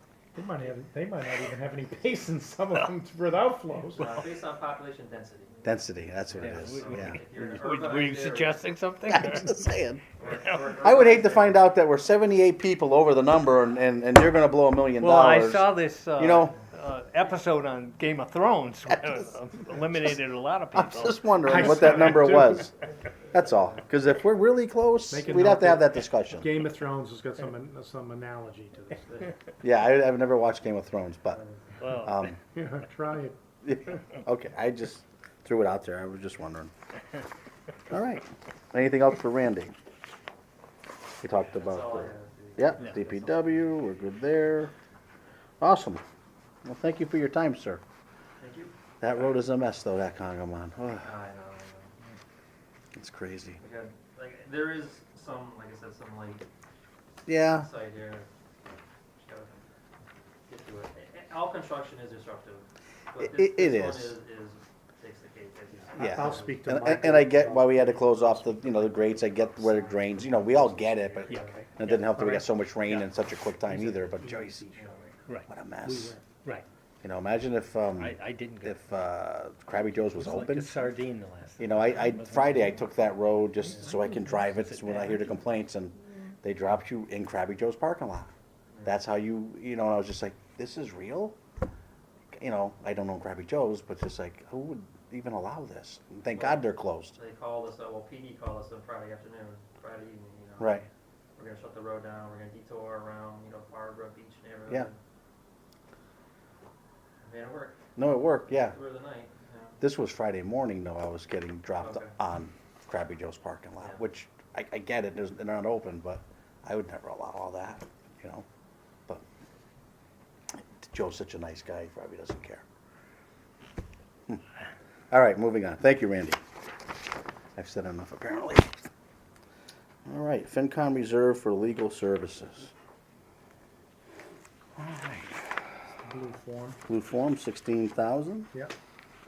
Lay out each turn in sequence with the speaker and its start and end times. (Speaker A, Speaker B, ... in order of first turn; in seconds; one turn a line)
Speaker A: 0.3-4.2
Speaker B: 4.0-5.7
Speaker C: 5.6-7.2
Speaker B: 6.4-8.7
Speaker D: 6.4-9.6
Speaker C: 9.1-10.0
Speaker B: 10.2-11.7
Speaker D: 10.3-10.8
Speaker C: 10.7-16.6
Speaker D: 15.0-21.2
Speaker C: 20.8-22.8
Speaker A: 21.4-22.6
Speaker C: 23.3-26.5
Speaker A: 25.1-29.3
Speaker C: 29.6-32.4
Speaker D: 31.3-32.1
Speaker A: 32.5-34.0
Speaker C: 33.6-36.7
Speaker C: 37.9-39.8
Speaker C: 41.2-44.7
Speaker B: 41.4-43.8
Speaker C: 45.6-46.0
Speaker C: 46.6-47.8
Speaker B: 48.4-48.7
Speaker C: 49.0-51.1
Speaker B: 51.0-51.9
Speaker C: 53.0-53.6
Speaker B: 53.6-56.4
Speaker C: 57.3-57.7
Speaker B: 57.5-59.6
Speaker B: 60.5-67.4
Speaker C: 63.2-64.2
Speaker A: 65.9-69.0
Speaker C: 66.0-74.7
Speaker B: 69.1-69.9
Speaker A: 69.5-70.0
Speaker B: 70.5-71.3
Speaker D: 71.2-71.7
Speaker A: 71.3-73.1
Speaker A: 73.6-75.2
Speaker D: 74.8-75.4
Speaker C: 75.5-76.2
Speaker A: 75.8-76.4
Speaker C: 77.0-80.8
Speaker D: 78.0-78.8
Speaker D: 80.2-82.8
Speaker C: 81.6-88.3
Speaker D: 84.3-85.3
Speaker B: 88.7-89.0
Speaker C: 88.8-91.4
Speaker C: 92.4-97.2
Speaker B: 96.3-105.0
Speaker C: 100.6-100.8
Speaker B: 107.2-107.8
Speaker C: 108.0-108.8
Speaker B: 108.5-109.8
Speaker C: 109.8-118.5
Speaker B: 111.8-112.2
Speaker C: 120.6-122.7
Speaker C: 125.1-126.4
Speaker C: 127.6-128.8
Speaker C: 130.1-132.7
Speaker C: 134.8-135.5
Speaker A: 135.9-136.8
Speaker C: 136.9-138.5